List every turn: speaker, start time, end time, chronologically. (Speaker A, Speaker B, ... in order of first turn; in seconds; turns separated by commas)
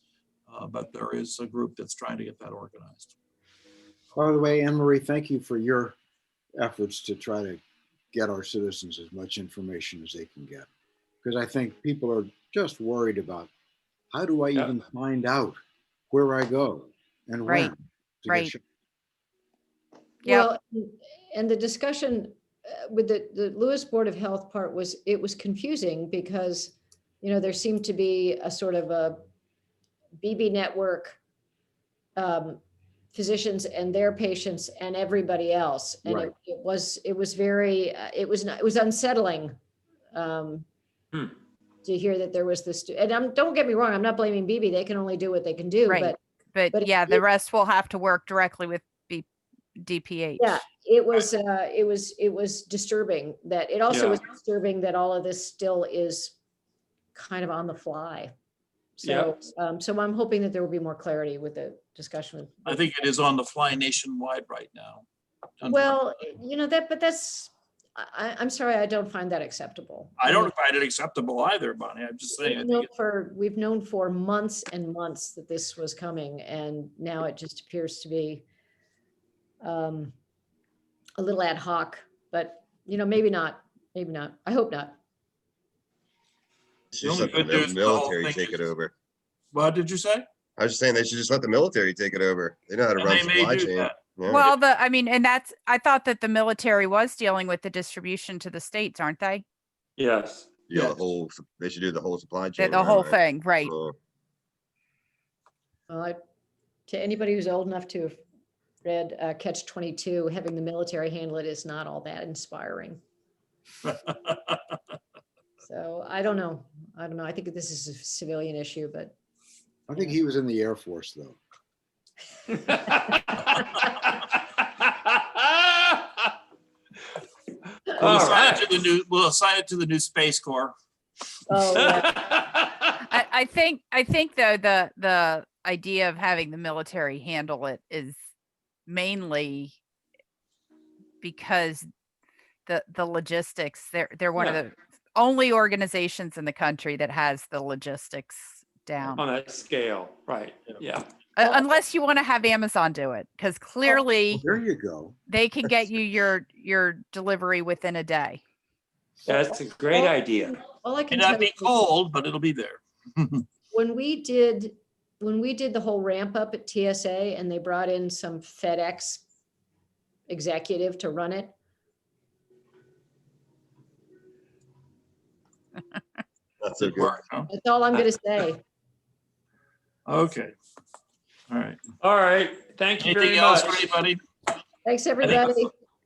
Speaker A: 0.5-3.1, Speaker B: 4.2-6.0, Speaker B: 6.6-7.6, Speaker B: 8.1-10.7, Speaker B: 11.2-13.5, Speaker B: 14.1-15.6, Speaker B: 16.1-18.6, Speaker C: 17.5-17.7, Speaker C: 18.3-18.5, Speaker C: 20.2-20.5, Speaker D: 20.2-29.2, Speaker D: 30.2-31.2, Speaker D: 32.2-32.6, Speaker D: 33.1-39.5, Speaker B: 36.0-36.3, Speaker D: 40.1-40.7, Speaker D: 41.8-46.2, Speaker C: 45.9-49.3, Speaker D: 46.7-47.2, Speaker C: 49.8-50.6, Speaker D: 50.4-56.4, Speaker E: 53.9-54.2, Speaker D: 57.1-58.3, Speaker D: 59.0-62.9, Speaker E: 59.0-59.3, Speaker A: 62.7-65.0, Speaker A: 65.6-66.0, Speaker D: 65.7-70.5, Speaker A: 70.2-72.9, Speaker D: 72.3-78.5, Speaker D: 79.6-80.1, Speaker D: 81.2-85.0, Speaker F: 86.9-88.9, Speaker A: 87.0-88.6, Speaker A: 89.5-90.2, Speaker F: 90.6-94.5, Speaker A: 93.0-94.5, Speaker C: 94.3-99.4, Speaker E: 100.0-100.5, Speaker F: 100.7-104.0, Speaker C: 102.6-103.7, Speaker D: 105.9-106.2, Speaker D: 106.9-108.2, Speaker D: 108.8-113.0, Speaker A: 113.8-114.6, Speaker D: 115.6-119.1, Speaker B: 119.9-121.4, Speaker E: 122.7-123.9, Speaker E: 124.9-126.1, Speaker E: 128.0-128.7, Speaker A: 128.0-130.7, Speaker D: 131.5-132.2, Speaker E: 131.7-132.8, Speaker C: 133.0-138.2, Speaker C: 138.9-139.8, Speaker C: 141.2-141.9, Speaker C: 142.7-149.2, Speaker E: 149.2-151.1, Speaker C: 151.4-154.4, Speaker B: 154.4-155.2, Speaker C: 155.3-158.4, Speaker E: 159.3-160.6, Speaker D: 159.3-161.8, Speaker A: 161.1-163.4, Speaker D: 163.7-169.2, Speaker D: 170.3-171.5, Speaker F: 176.6-177.1, Speaker A: 176.8-177.5, Speaker D: 177.5-178.6, Speaker A: 180.1-180.5, Speaker A: 181.5-181.8, Speaker E: 182.0-183.8, Speaker A: 183.0-184.2, Speaker D: 184.8-185.7, Speaker A: 185.2-185.6